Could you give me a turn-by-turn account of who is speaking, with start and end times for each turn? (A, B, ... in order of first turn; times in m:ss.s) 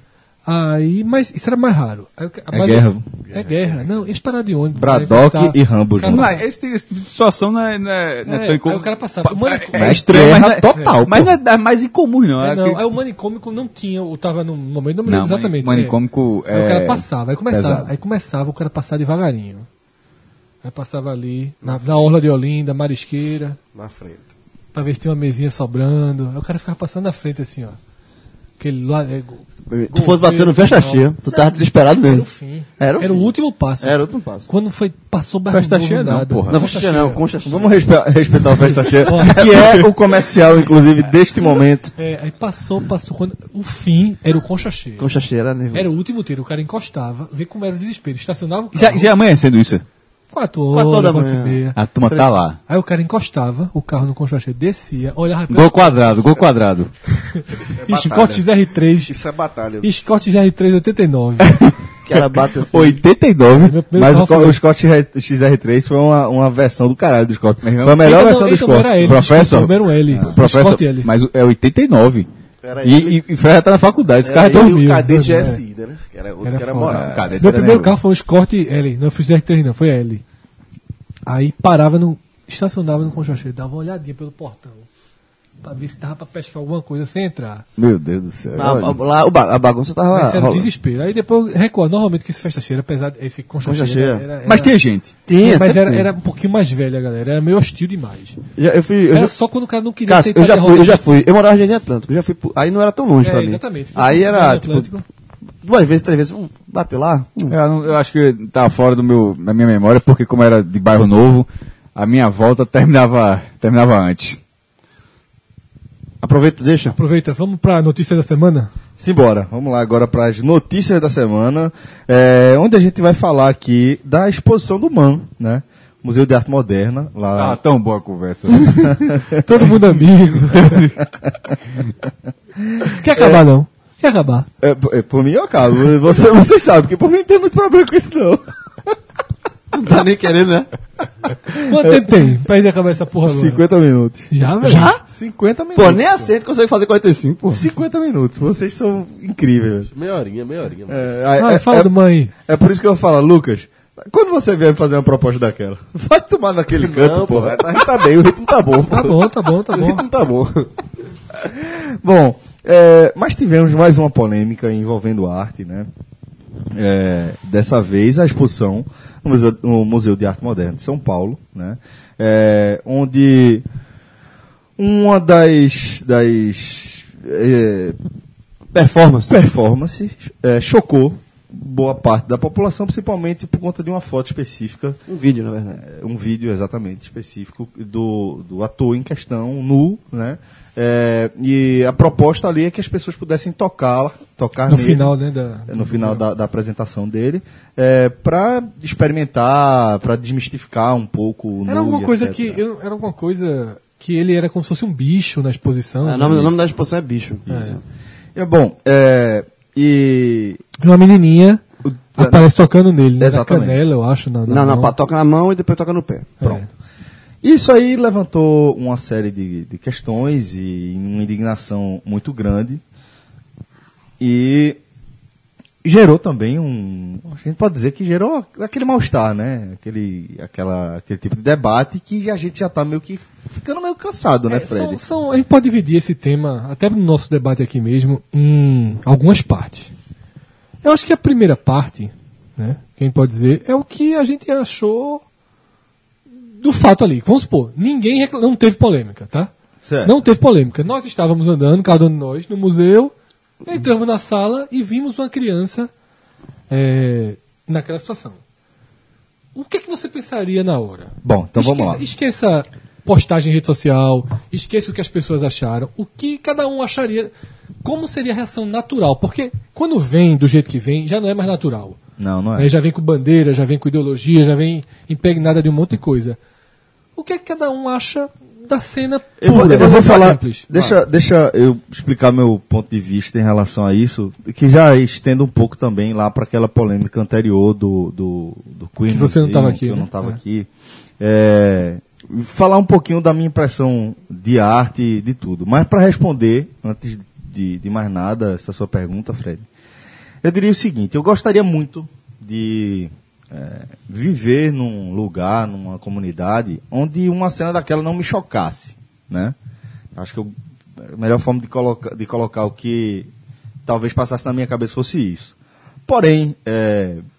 0:00.5-0:06.4 A
0:02.5-0:03.1 B
0:03.3-0:03.6 C
0:04.8-0:06.3 B
0:06.1-0:12.9 D
0:08.3-0:11.0 A
0:09.8-0:11.4 B
0:12.4-0:16.0 A
0:15.0-0:17.9 D
0:16.5-0:19.7 A
0:20.6-0:23.6 A
0:21.6-0:22.1 C
0:23.7-0:24.3 C
0:24.7-0:27.8 A
0:28.6-0:37.2 A
0:29.7-0:33.3 E
0:33.8-0:34.5 E
0:35.5-0:36.6 D
0:36.5-0:37.9 E
0:37.5-0:41.9 B
0:39.1-0:39.4 A
0:39.4-0:39.8 D
0:42.0-0:45.1 A
0:45.0-0:45.9 E
0:45.7-0:49.1 A
0:48.7-0:49.8 D
0:50.3-0:51.8 A
0:50.7-0:52.4 E
0:51.8-0:52.6 D
0:52.7-0:56.0 A
0:55.5-0:56.9 D
0:57.4-0:59.2 A
0:57.7-0:58.4 C
0:59.0-1:00.1 C
0:59.8-1:01.6 A
1:01.4-1:03.8 D
1:02.0-1:03.0 E
1:03.5-1:04.6 A
1:03.9-1:09.0 B
1:07.6-1:08.2 D
1:08.0-1:11.1 A
1:08.9-1:12.3 D
1:12.6-1:13.2 C
1:12.8-1:14.7 D
1:14.2-1:17.5 C
1:14.5-1:15.6 A
1:16.4-1:20.2 A
1:16.9-1:18.0 D
1:21.3-1:24.9 A
1:25.6-1:27.6 A
1:27.8-1:29.0 D
1:28.6-1:30.7 E
1:30.1-1:34.7 A
1:33.6-1:34.2 E
1:34.4-1:35.1 D
1:35.3-1:36.1 E
1:35.4-1:38.4 A
1:38.6-1:39.3 E
1:39.1-1:41.0 A
1:40.1-1:44.9 E
1:43.2-1:45.0 A
1:45.6-1:47.6 E
1:47.5-1:54.4 D
1:56.2-1:57.0 E
1:56.9-1:58.7 A
1:59.0-2:07.6 B
2:07.4-2:09.0 D
2:08.8-2:09.4 B
2:09.3-2:10.8 A
2:10.5-2:10.9 D
2:12.6-2:13.4 B
2:12.9-2:14.5 A
2:14.6-2:18.9 B
2:19.7-2:20.7 E
2:21.5-2:22.2 B
2:21.6-2:23.6 A
2:23.2-2:26.3 B
2:24.3-2:24.9 A
2:24.6-2:25.0 E
2:25.8-2:27.6 E
2:27.5-2:29.9 B
2:29.9-2:31.1 C
2:30.9-2:31.9 B
2:31.4-2:32.3 A
2:32.5-2:38.3 B
2:36.8-2:40.7 C
2:38.9-2:40.0 A
2:41.4-2:45.9 B
2:46.7-2:53.6 B
2:54.8-2:58.0 B
2:58.7-2:59.4 E
2:59.3-3:05.0 B
3:05.1-3:05.8 E
3:05.7-3:15.1 B
3:14.7-3:16.2 A
3:15.7-3:22.6 B
3:21.7-3:26.5 A
3:26.0-3:27.8 E
3:27.5-3:27.8 A
3:28.4-3:30.6 B
3:30.8-3:31.6 A
3:31.8-3:32.5 B
3:32.2-3:34.9 A
3:33.2-3:33.8 B
3:34.5-3:36.4 E
3:36.4-3:36.7 A
3:37.4-3:42.8 B
3:44.2-3:44.8 B
3:45.8-3:55.0 B
3:54.5-3:59.9 A
4:00.8-4:05.2 A
4:06.5-4:09.5 A
4:09.8-4:10.2 B
4:10.0-4:13.1 A
4:13.6-4:15.9 A
4:16.7-4:18.4 A
4:19.6-4:27.3 A
4:21.2-4:22.0 B
4:27.8-4:32.0 A
4:32.2-4:32.7 B
4:32.6-4:36.4 A
4:37.2-4:40.7 A
4:39.4-4:50.7 B
4:39.4-4:41.0 E
4:49.1-4:50.4 A
4:51.2-4:59.7 B
5:00.4-5:09.6 B
5:10.2-5:13.3 B
5:13.8-5:15.6 B
5:16.1-5:17.2 B